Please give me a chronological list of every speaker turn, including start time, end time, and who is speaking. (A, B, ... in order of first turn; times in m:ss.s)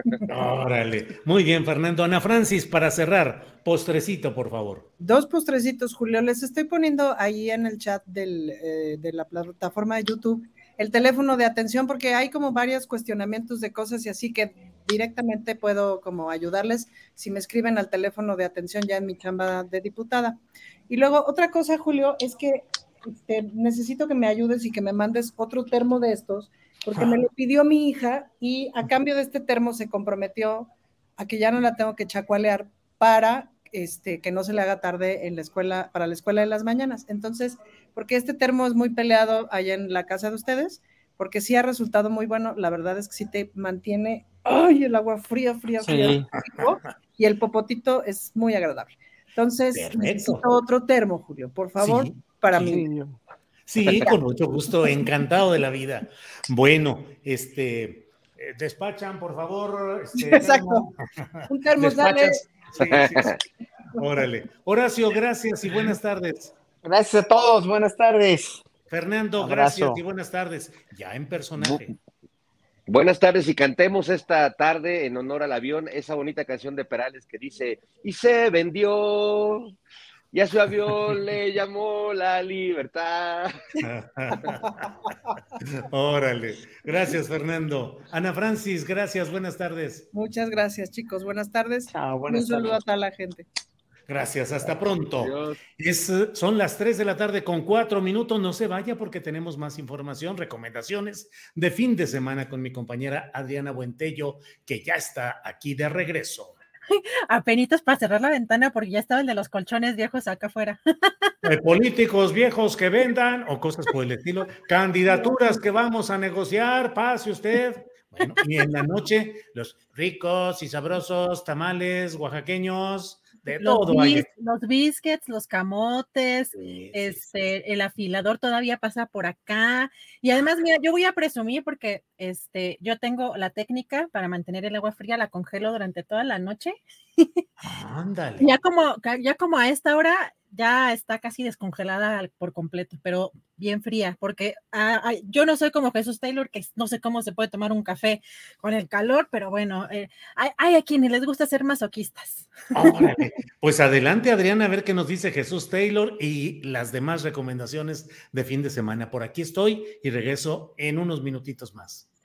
0:00.3-0:04.9 A
0:05.0-0:52.9 B
0:45.8-0:46.2 C
0:49.7-0:50.5 A
0:51.8-0:52.8 A
0:52.6-0:53.2 C
0:53.7-1:00.9 A
1:00.2-1:00.9 B
1:01.5-1:02.5 B
1:01.8-1:03.4 A
1:04.0-1:06.5 A
1:06.8-1:08.6 C
1:08.9-1:11.9 A
1:09.4-1:10.0 C
1:12.9-1:19.7 D
1:20.3-1:23.5 D
1:23.8-1:24.6 A
1:25.9-1:30.1 A
1:30.1-1:33.5 B
1:31.9-1:32.8 C
1:34.1-1:46.6 A
1:35.2-1:35.5 D
1:47.3-1:50.8 E
1:51.4-2:04.3 A
2:03.6-2:17.4 E
2:06.6-2:07.2 A
2:17.6-2:18.5 A
2:18.4-2:32.5 E
2:32.7-2:42.0 A